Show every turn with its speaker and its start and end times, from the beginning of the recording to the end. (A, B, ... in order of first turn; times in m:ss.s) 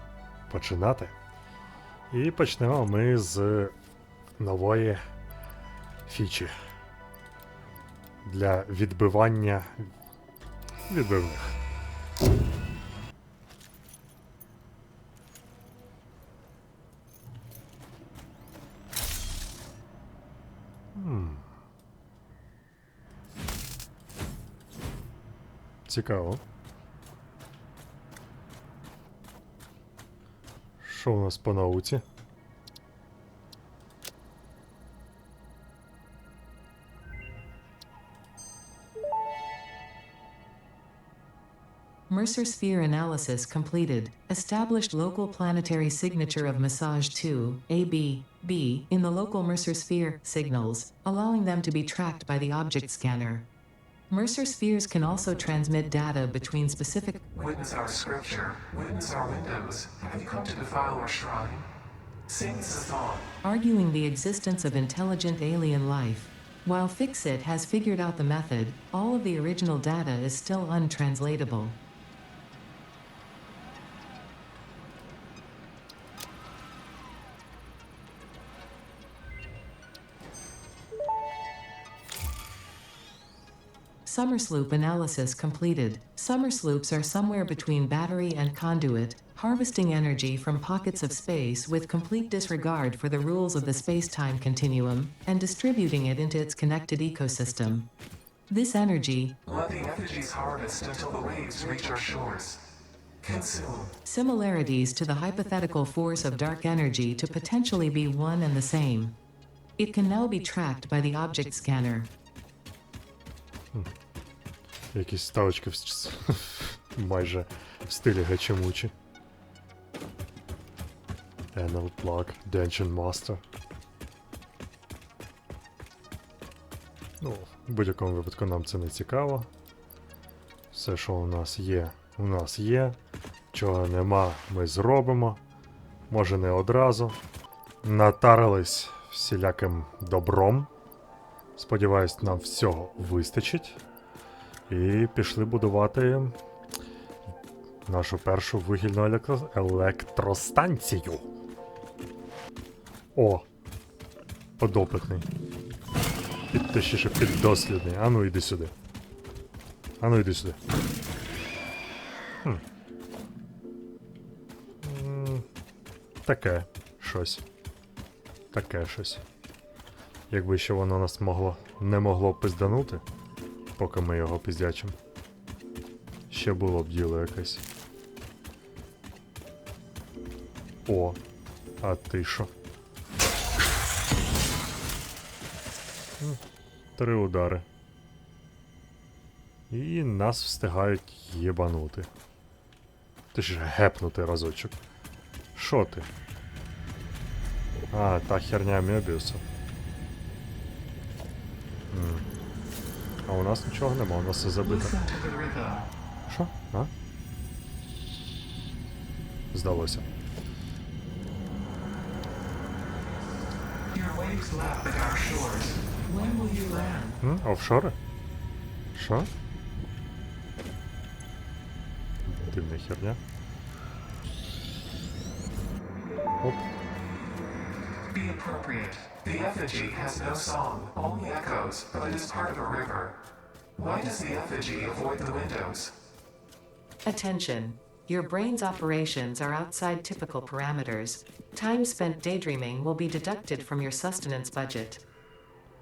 0:00.5-0:01.1 A
0:02.1-0:03.7 A
0:04.4-0:05.0 A
0:06.1-0:06.5 A
0:08.2-0:09.9 A
0:10.9-0:11.6 A
0:21.0-0:21.5 A
0:25.9-0:26.4 A
0:30.8-0:32.0 A
0:42.1-0:53.5 B
0:54.1-0:57.3 B
0:57.3-1:01.7 C
1:02.3-1:03.4 C
1:03.4-1:11.8 B
1:24.0-1:37.9 B
1:38.5-1:39.4 B
1:39.4-1:42.7 C
1:43.2-1:44.0 C
1:44.0-1:49.2 B
1:49.8-1:52.1 B
1:54.9-1:58.9 A
2:01.5-2:03.4 A
2:07.2-2:09.5 A
2:10.7-2:13.0 A
2:13.5-2:15.4 A
2:16.1-2:17.2 A
2:17.8-2:20.7 A
2:21.6-2:23.8 A
2:24.7-2:26.4 A
2:27.9-2:31.3 A
2:33.2-2:33.5 A
2:34.6-2:35.3 A
2:36.5-2:38.7 A
2:40.0-2:40.6 A
2:44.8-2:45.5 A
2:46.2-2:47.4 A
2:48.5-2:49.2 A
2:50.3-2:53.0 A
2:53.8-2:55.0 A
2:56.3-2:57.6 A
3:00.9-3:01.2 A
3:01.8-3:02.5 A
3:07.0-3:07.7 A
3:09.7-3:12.1 A
3:13.3-3:14.8 A
3:15.6-3:16.1 A
3:17.9-3:19.4 A
3:21.9-3:22.3 A
3:23.3-3:25.0 A
3:24.6-3:25.9 C
3:26.3-3:26.9 A
3:29.5-3:30.1 A
3:33.9-3:37.2 C
3:37.2-3:38.0 A
3:39.0-3:39.3 A
3:42.3-3:43.2 A
3:46.4-3:46.7 A
3:48.1-3:53.2 C
3:53.8-3:56.0 C
3:57.0-4:05.0 B